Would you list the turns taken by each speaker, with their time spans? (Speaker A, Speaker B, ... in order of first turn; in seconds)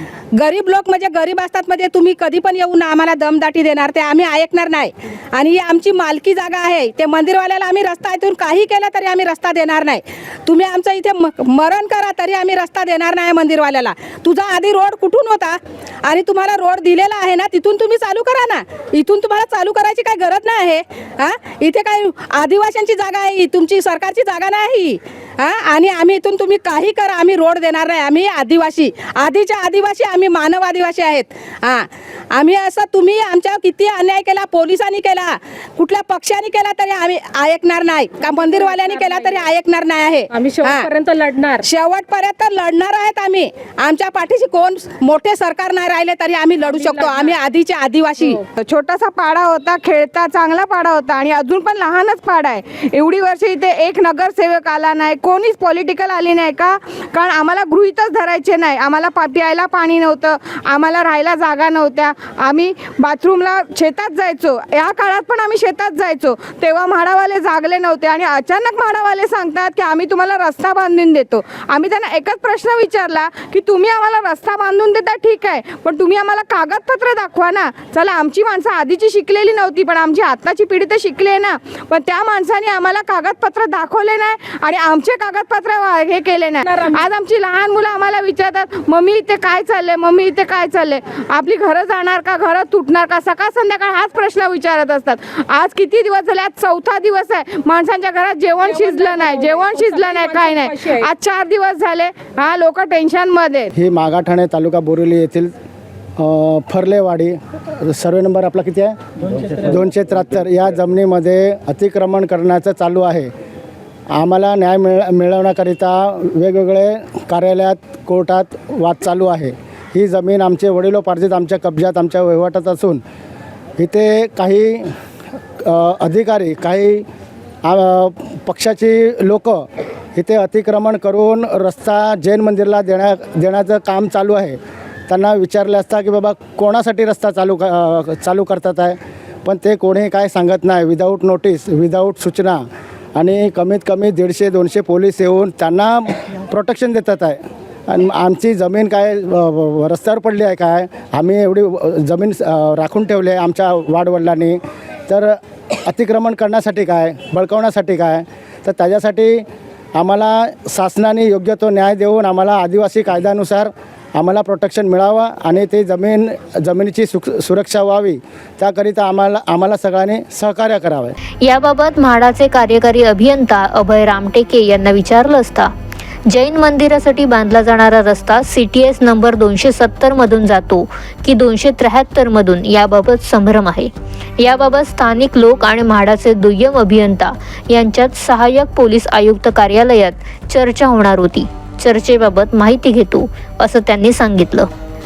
Speaker A: 0.3-40.9, 41.6-48.4
Speaker B: 38.3-39.4, 40.3-41.6, 46.7-47.4, 98.6-101.1
Speaker C: 48.6-103.7
Speaker D: 103.7-105.5, 106.2-113.3, 114.2-123.0, 123.8-124.9, 125.6-127.0, 127.7-134.6, 135.1-142.6, 143.2-159.4, 160.0-171.1
Speaker E: 171.4-175.7, 176.3-194.7